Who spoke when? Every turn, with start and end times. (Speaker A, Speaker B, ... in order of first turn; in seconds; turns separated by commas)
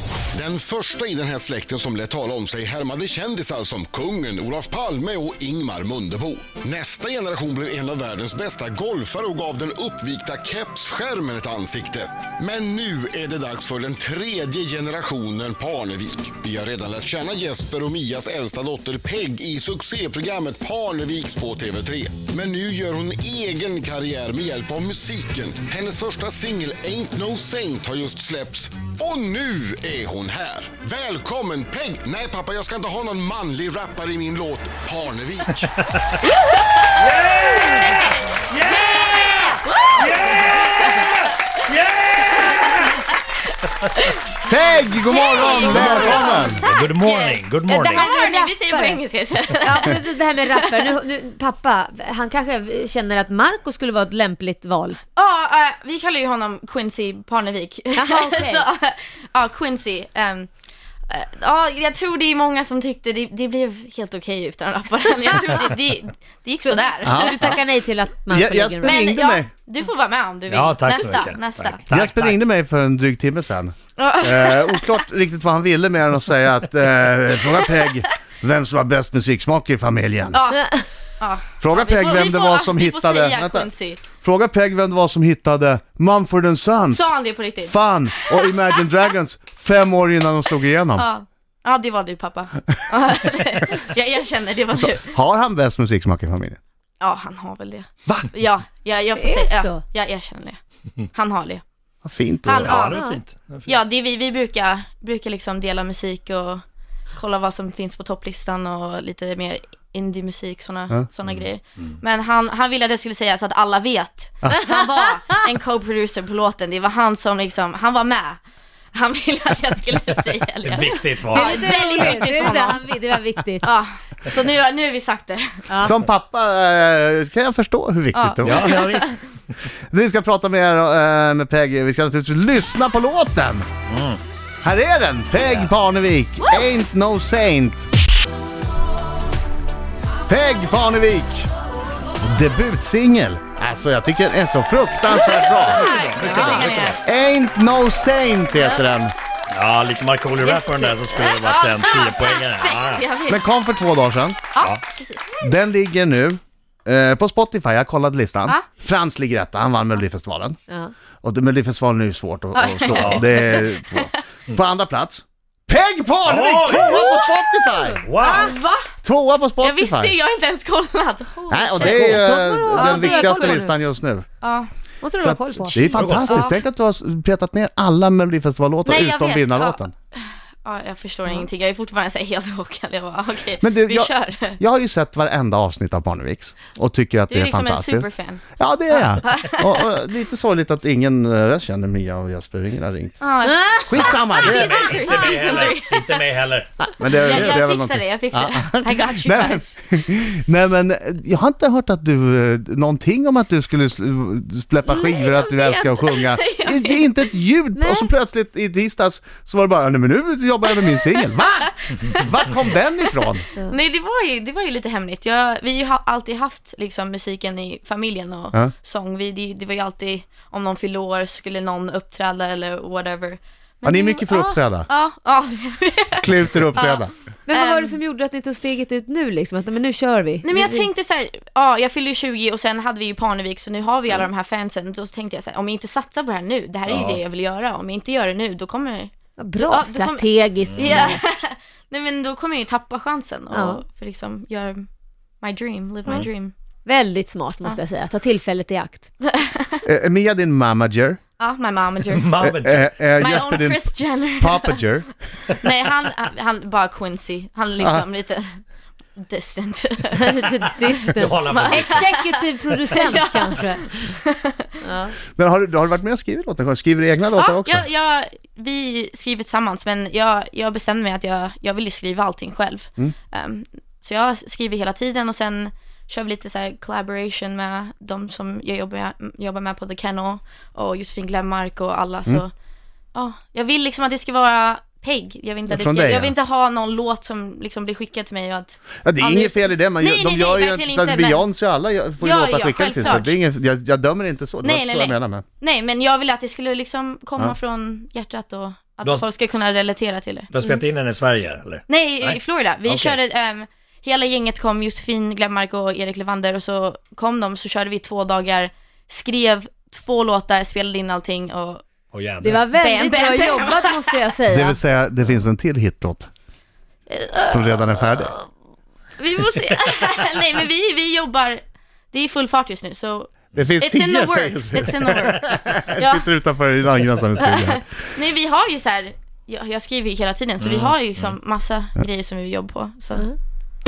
Speaker A: 0.3-35.7, Speaker B: 35.9-36.2, Speaker C: 36.2-41.1, Speaker B: 37.0-43.0, Speaker D: 38.6-39.7, Speaker E: 44.4-46.6, Speaker C: 45.1-50.9, Speaker D: 45.2-46.5, Speaker B: 45.7-48.1, Speaker D: 47.9-49.0, Speaker D: 49.6-55.0, Speaker C: 55.1-60.5, Speaker D: 57.9-58.6, Speaker C: 61.1-67.6, Speaker D: 66.6-69.0, Speaker E: 67.0-67.5, Speaker E: 68.3-69.5, Speaker C: 68.8-71.8, Speaker B: 70.5-72.4, Speaker E: 71.9-80.4, Speaker C: 74.0-74.9, Speaker C: 80.3-84.0, Speaker E: 81.6-87.1, Speaker C: 86.9-88.6, Speaker E: 87.6-91.0, Speaker C: 91.0-95.2, Speaker E: 94.9-96.6, Speaker C: 97.0-100.6, Speaker D: 99.1-99.8, Speaker C: 101.1-101.6, Speaker E: 102.0-102.8, Speaker C: 102.4-103.1, Speaker B: 102.6-103.7, Speaker D: 102.8-103.2, Speaker C: 103.7-106.6, Speaker C: 107.1-118.4, Speaker B: 111.3-112.0, Speaker C: 118.9-125.6, Speaker B: 120.6-122.3, Speaker D: 121.3-123.7, Speaker D: 125.7-125.9, Speaker E: 125.8-128.8, Speaker C: 128.1-129.2, Speaker B: 128.4-129.2, Speaker E: 129.9-133.7, Speaker B: 133.9-134.2, Speaker E: 134.6-137.9, Speaker B: 135.4-135.7, Speaker E: 140.3-141.5, Speaker E: 142.2-149.1, Speaker C: 145.1-147.0, Speaker B: 145.6-146.9, Speaker C: 148.5-148.8, Speaker B: 149.5-153.1, Speaker C: 150.4-153.4, Speaker E: 153.3-154.4, Speaker C: 154.5-155.3, Speaker E: 155.4-160.6, Speaker E: 161.2-168.0, Speaker C: 162.5-164.2, Speaker B: 162.9-163.3, Speaker B: 166.2-167.1, Speaker B: 168.0-168.6, Speaker C: 168.2-168.9, Speaker E: 169.0-170.1, Speaker C: 169.6-173.7, Speaker E: 171.5-174.2, Speaker D: 171.7-173.8, Speaker C: 174.4-174.7, Speaker D: 175.0-176.1, Speaker E: 175.2-179.9, Speaker B: 175.8-176.4, Speaker C: 176.2-176.6, Speaker C: 178.8-184.6, Speaker E: 183.6-193.2, Speaker C: 187.3-189.9, Speaker C: 193.2-196.2, Speaker D: 193.5-193.9, Speaker E: 193.8-195.0, Speaker B: 194.0-197.6, Speaker E: 197.0-213.4, Speaker C: 197.1-199.8, Speaker C: 204.9-207.2, Speaker D: 207.7-208.1, Speaker C: 211.9-227.9, Speaker E: 223.8-224.9, Speaker E: 226.2-227.1, Speaker D: 227.5-230.9, Speaker C: 230.4-244.8, Speaker B: 236.9-237.2, Speaker D: 239.4-241.2, Speaker B: 240.6-241.1, Speaker D: 243.5-243.8, Speaker C: 245.4-246.5, Speaker D: 246.8-249.1, Speaker C: 249.2-249.8, Speaker E: 249.8-251.2, Speaker C: 251.4-252.3, Speaker B: 252.1-252.9, Speaker E: 252.4-255.1, Speaker C: 253.1-254.9, Speaker C: 255.6-258.6, Speaker C: 259.1-264.7, Speaker D: 260.1-264.0, Speaker B: 260.5-262.1, Speaker D: 264.8-265.1, Speaker E: 265.4-267.8, Speaker C: 267.4-282.5, Speaker C: 283.1-291.4, Speaker E: 285.7-286.3, Speaker E: 289.0-295.4, Speaker C: 292.2-293.4, Speaker C: 294.6-300.5, Speaker B: 300.5-303.2, Speaker C: 301.9-311.8, Speaker B: 312.1-312.7, Speaker D: 312.4-314.8, Speaker C: 312.7-314.2, Speaker E: 314.5-316.3, Speaker C: 317.1-318.4, Speaker E: 317.4-318.3, Speaker C: 319.2-326.3, Speaker E: 323.5-327.8, Speaker C: 327.4-333.3, Speaker B: 330.6-331.3